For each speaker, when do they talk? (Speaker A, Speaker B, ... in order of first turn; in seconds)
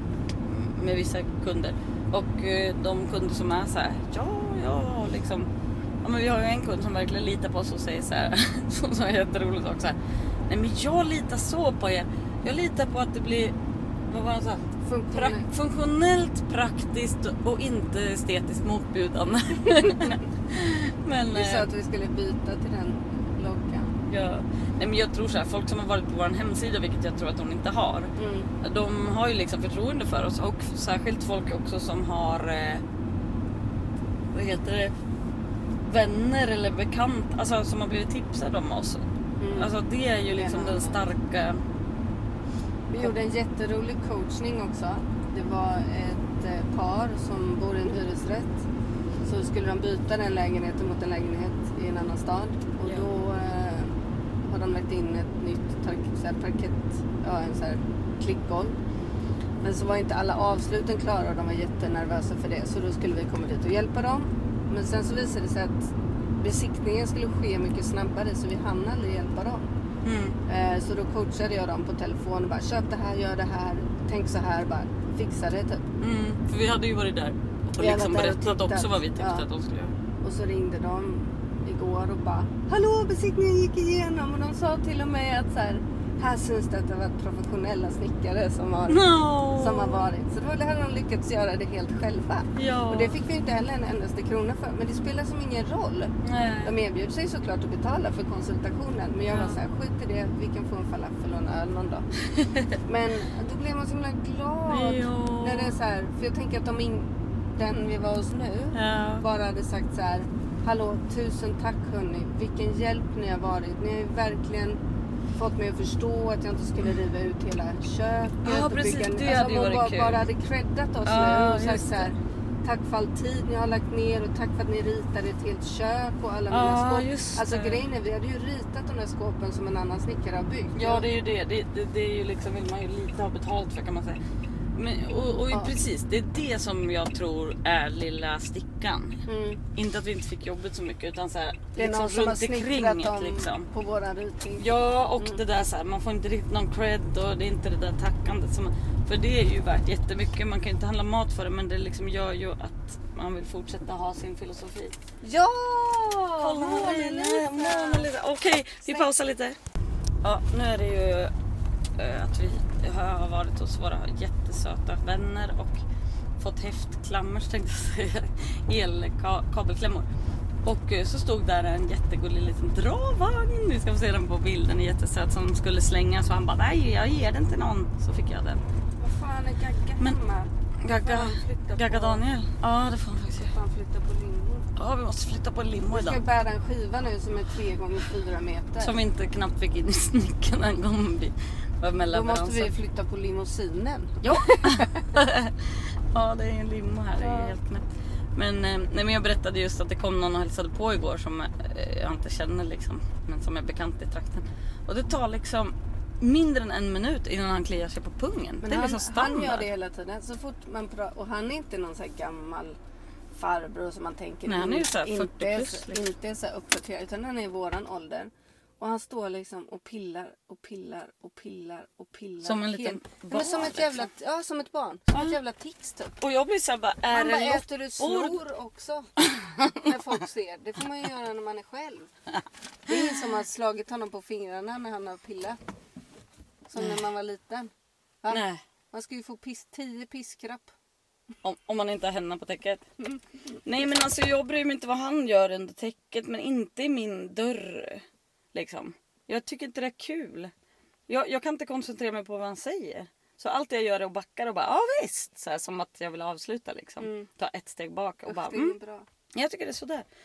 Speaker A: 0.4-5.5, 6.0-10.0, 10.5-13.6, 14.1-21.7, 24.1-28.1, 28.6-32.8, 34.3-34.9, 35.8-39.0, 39.5-41.6, 70.0-70.4, 76.0-80.0, 88.9-90.1, 92.6-93.2, 96.2-96.8, 99.3-99.6, 104.7-105.7, 108.7-109.2, 118.4-120.2, 121.0-122.1, 126.5-127.8, 130.8-134.2, 134.8-139.2, 139.8-143.7, 144.6-154.9, 156.4-159.6, 160.2-161.3, 162.0-165.8, 166.4-170.1, 170.6-178.6, 180.8-183.5, 184.8-186.2, 188.8-192.7, 194.2-209.7, 214.5-216.1, 222.4-224.1, 226.2-228.4, 229.2-229.7, 238.3-238.6, 241.4-242.8, 243.6-250.5, 251.1-258.8, 259.4-260.1
Speaker B: 14.8-15.5, 21.3-24.0, 28.2-28.5, 39.4-39.7, 40.2-41.0, 42.9-48.7, 49.3-58.8, 59.6-69.6, 70.5-75.9, 77.8-79.5, 80.2-96.1, 96.6-102.1, 102.8-114.8, 115.3-131.1, 139.3-139.6, 141.8-145.4, 155.2-158.1, 158.8-159.1, 179.0-182.2, 183.4-184.7, 185.9-189.0, 192.1-195.0, 197.2-197.6, 208.6-212.8, 213.3-226.2, 227.1-229.1, 229.7-232.1, 232.9-235.6, 236.7-237.7, 238.2-240.7, 257.0-257.3, 258.2-259.1